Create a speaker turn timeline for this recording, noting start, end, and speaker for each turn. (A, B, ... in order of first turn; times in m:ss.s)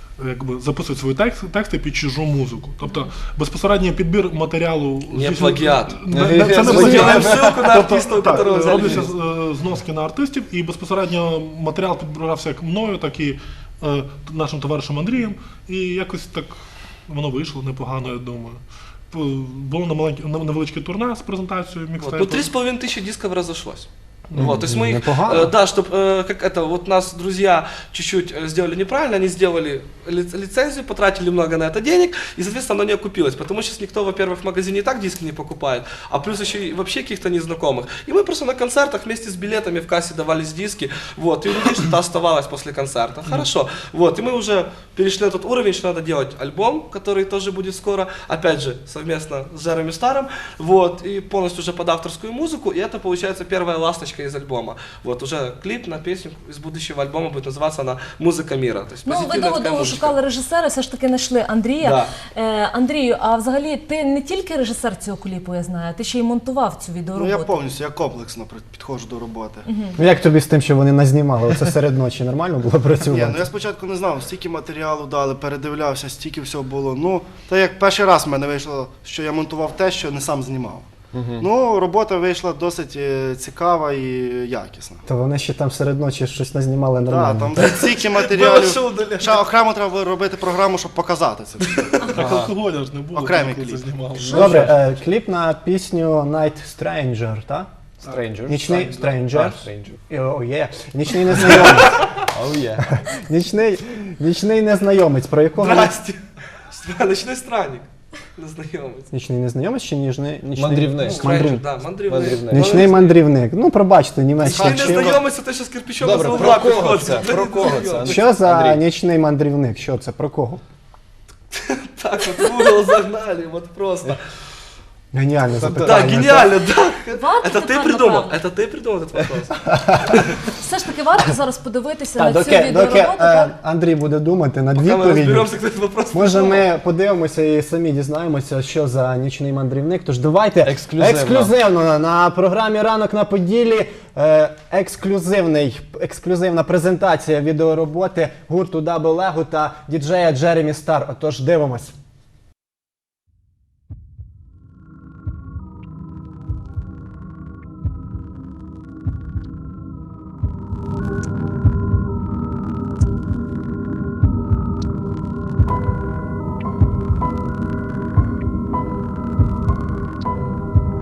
0:00.2-0:22.5 A
0:02.8-0:03.1 B
0:05.1-0:09.1 C
0:06.1-0:07.7 D
0:22.0-1:00.2 C
0:24.4-0:25.5 E
0:59.0-1:07.6 B
1:01.8-1:02.2 C
1:07.2-1:09.6 F
1:09.7-1:10.0 B
1:10.0-1:13.4 E
1:13.1-1:25.0 F
1:21.1-1:21.4 D
1:25.1-1:27.7 E
1:27.0-1:32.0 F
1:27.6-1:29.5 C
1:31.8-1:32.4 C
1:32.0-1:34.8 A
1:33.1-1:33.9 F
1:34.3-1:34.6 B
1:34.3-1:37.7 E
1:38.0-1:39.2 A
1:38.1-1:40.0 D
1:38.5-1:42.0 E
1:41.3-1:42.1 C
1:42.3-1:42.8 D
1:42.8-1:46.0 E
1:45.6-1:49.1 C
1:49.1-1:51.7 E
1:50.5-1:51.4 D
1:51.0-1:53.2 C
1:52.1-1:52.9 D
1:52.5-1:55.2 E
1:54.4-1:58.2 C
1:54.4-1:55.1 F
1:56.0-1:58.8 D
1:58.0-2:00.6 E
2:01.5-2:04.2 C
2:05.1-2:06.6 E
2:05.5-2:06.2 D
2:05.8-2:10.1 C
2:07.1-2:08.4 B
2:09.7-2:10.0 E
2:10.6-2:13.5 B
2:12.2-2:15.6 E
2:14.8-2:16.7 C
2:16.1-2:31.9 E
2:20.6-2:21.6 D